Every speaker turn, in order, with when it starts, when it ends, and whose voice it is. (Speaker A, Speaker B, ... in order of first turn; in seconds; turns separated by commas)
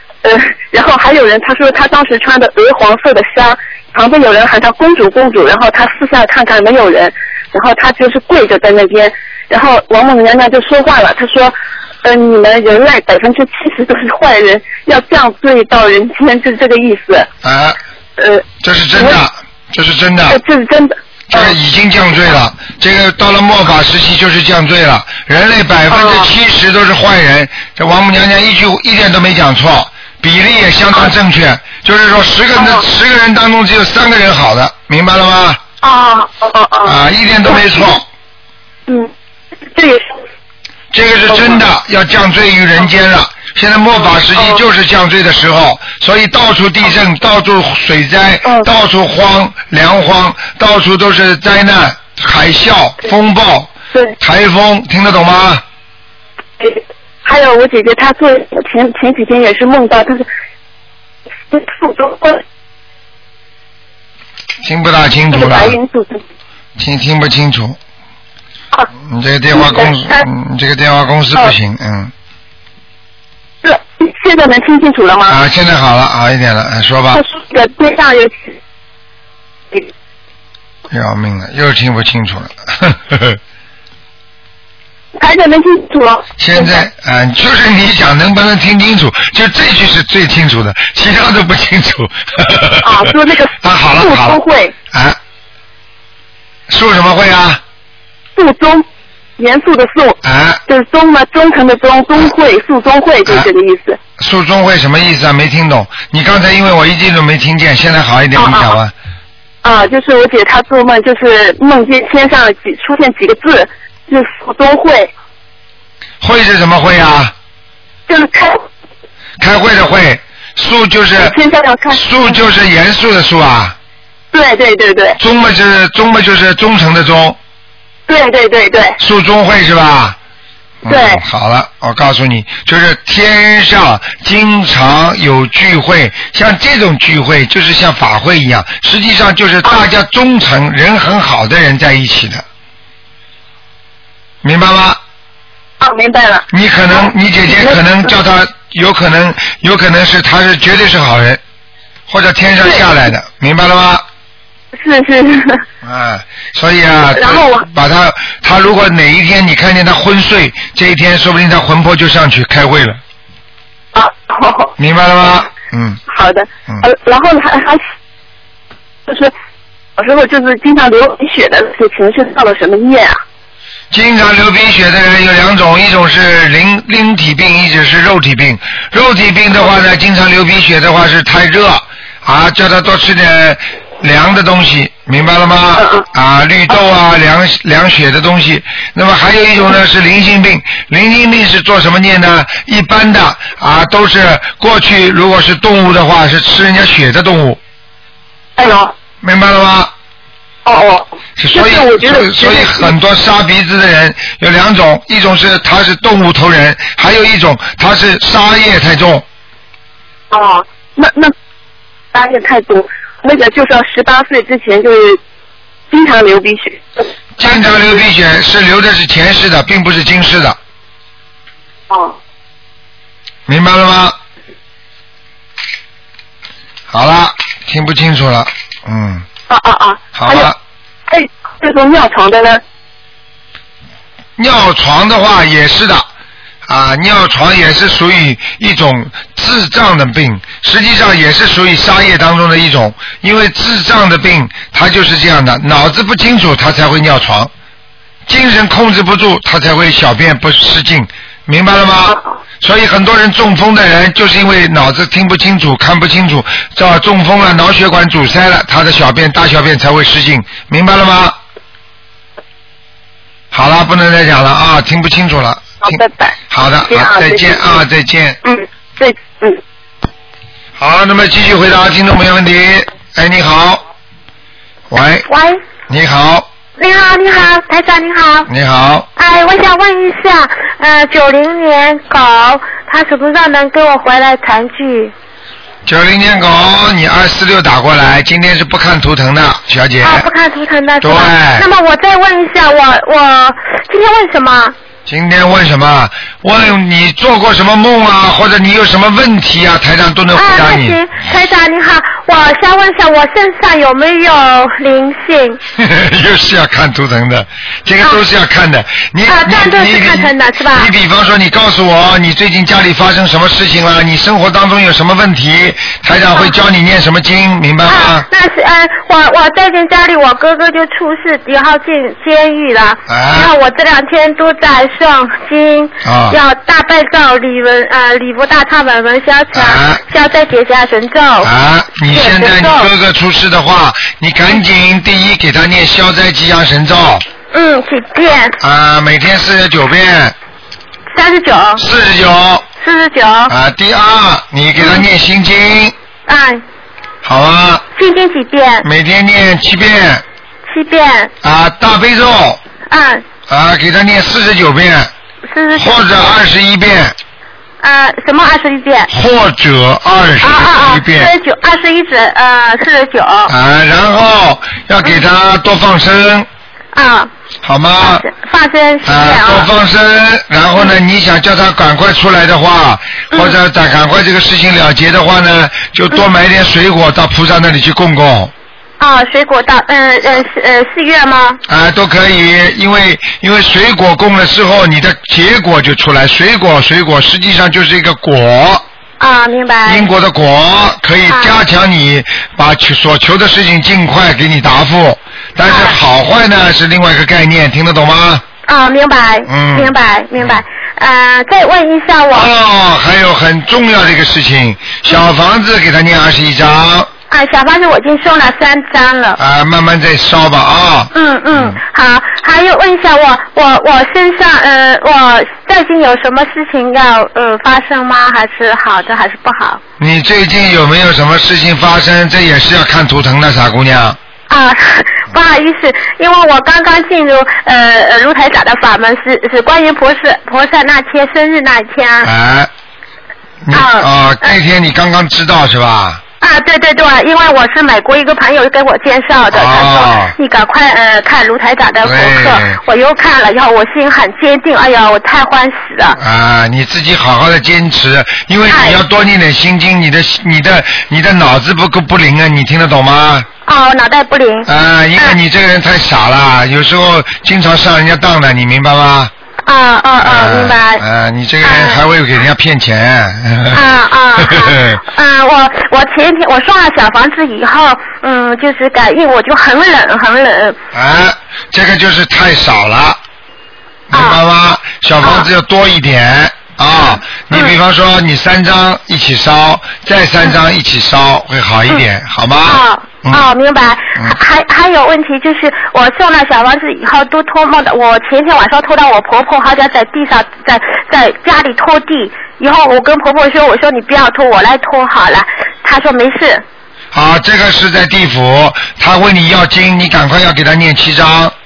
Speaker A: 0.2-17.3, Speaker B: 17.4-17.8, Speaker A: 18.2-19.2, Speaker B: 18.6-20.4, Speaker A: 20.3-21.5, Speaker B: 21.3-35.6, Speaker A: 25.9-26.3, Speaker A: 32.6-32.8, Speaker A: 35.8-37.0, Speaker B: 36.8-38.1, Speaker A: 37.5-37.9, Speaker A: 39.8-40.1, Speaker B: 40.9-55.6, Speaker A: 41.3-41.6, Speaker A: 44.4-44.6, Speaker A: 56.6-60.2, Speaker A: 61.5-62.4, Speaker B: 64.6-65.8, Speaker A: 65.3-66.2, Speaker B: 66.8-67.8, Speaker B: 69.0-72.1, Speaker A: 69.5-70.2, Speaker A: 73.6-75.4, Speaker B: 75.3-77.2, Speaker A: 77.1-78.6, Speaker B: 80.9-83.4, Speaker A: 85.2-86.8, Speaker B: 86.4-95.2, Speaker A: 92.8-94.7, Speaker B: 96.7-97.6, Speaker A: 98.4-98.8, Speaker A: 99.4-104.0, Speaker B: 100.2-100.6, Speaker B: 104.2-108.9, Speaker A: 108.4-108.8, Speaker A: 109.6-115.1, Speaker B: 116.2-117.3, Speaker A: 118.1-118.6, Speaker B: 119.4-121.4, Speaker A: 121.2-122.3, Speaker B: 121.9-123.8, Speaker A: 124.3-125.2, Speaker B: 125.2-127.4, Speaker A: 128.1-129.0, Speaker B: 129.0-130.2, Speaker B: 130.8-142.4, Speaker A: 130.9-131.2, Speaker B: 144.4-145.0, Speaker A: 145.8-147.8, Speaker B: 146.5-151.4, Speaker B: 152.1-154.0, Speaker A: 152.6-152.9, Speaker A: 154.7-155.6, Speaker B: 155.8-163.0, Speaker A: 157.1-157.6, Speaker A: 163.9-164.7, Speaker B: 164.8-166.0, Speaker A: 166.1-167.8, Speaker A: 169.1-169.3, Speaker A: 170.0-173.2, Speaker B: 173.9-197.6, Speaker A: 185.8-186.0, Speaker A: 198.6-198.9, Speaker B: 199.2-199.9, Speaker A: 200.6-202.9, Speaker B: 201.4-209.2, Speaker A: 210.3-211.3, Speaker A: 212.1-215.2, Speaker A: 215.9-217.8, Speaker B: 217.4-220.6, Speaker A: 221.9-222.2, Speaker B: 223.5-224.2, Speaker B: 226.9-229.2, Speaker A: 229.5-230.5, Speaker B: 230.1-230.6, Speaker A: 231.1-232.6, Speaker B: 234.4-236.1, Speaker B: 236.7-247.5, Speaker B: 248.3-261.4, Speaker B: 263.5-266.0, Speaker A: 265.8-267.8, Speaker B: 266.5-268.4, Speaker A: 268.4-269.6, Speaker B: 270.8-273.8, Speaker B: 274.9-275.3, Speaker C: 275.3-275.6, Speaker B: 275.9-276.5, Speaker C: 276.8-278.5, Speaker B: 278.5-279.1, Speaker C: 279.2-285.1, Speaker B: 285.9-290.3, Speaker C: 290.0-294.8, Speaker B: 291.0-291.6, Speaker B: 295.1-301.0, Speaker C: 300.3-305.6, Speaker B: 305.8-318.2, Speaker C: 309.3-310.9, Speaker C: 317.9-331.5, Speaker B: 323.1-323.5, Speaker B: 326.0-326.4, Speaker B: 329.5-330.0, Speaker B: 331.4-337.2, Speaker C: 332.1-332.9, Speaker C: 337.5-338.6, Speaker B: 338.6-340.4, Speaker C: 341.1-341.8, Speaker B: 341.8-342.6, Speaker C: 342.8-343.5, Speaker B: 343.5-345.9, Speaker C: 346.3-346.6, Speaker B: 347.2-347.8, Speaker C: 347.9-348.9, Speaker B: 348.8-350.2, Speaker C: 350.7-351.3, Speaker B: 351.4-352.6, Speaker C: 352.9-353.2, Speaker B: 353.5-355.1, Speaker C: 355.5-356.2, Speaker B: 355.8-357.1, Speaker C: 357.8-359.1, Speaker B: 359.1-361.3, Speaker C: 360.4-363.5, Speaker B: 363.5-366.5, Speaker C: 366.9-367.3, Speaker B: 367.6-368.2, Speaker C: 368.0-369.7, Speaker B: 369.0-378.5, Speaker C: 373.3-373.6, Speaker C: 379.0-381.6, Speaker B: 381.7-388.8, Speaker C: 389.2-390.1, Speaker B: 389.9-398.4, Speaker C: 391.3-391.6, Speaker C: 395.6-396.0, Speaker C: 398.6-402.5, Speaker B: 399.5-400.6, Speaker B: 402.3-407.1, Speaker C: 407.3-409.4, Speaker B: 409.4-411.8, Speaker C: 411.1-419.8, Speaker B: 420.0-424.2, Speaker C: 424.5-432.3, Speaker B: 432.2-432.7, Speaker B: 433.6-436.2, Speaker C: 433.7-434.5, Speaker C: 436.4-446.2, Speaker B: 439.5-440.4, Speaker B: 442.0-442.8, Speaker B: 446.2-453.5, Speaker C: 448.7-449.0, Speaker C: 453.6-455.4, Speaker B: 454.6-459.3, Speaker C: 459.6-461.0, Speaker B: 460.2-463.9, Speaker C: 461.6-462.0, Speaker C: 463.7-470.8, Speaker B: 464.4-465.0, Speaker B: 470.9-473.2, Speaker B: 474.1-483.5, Speaker C: 474.1-474.4, Speaker C: 475.2-475.5, Speaker C: 482.6-496.6, Speaker B: 497.1-501.5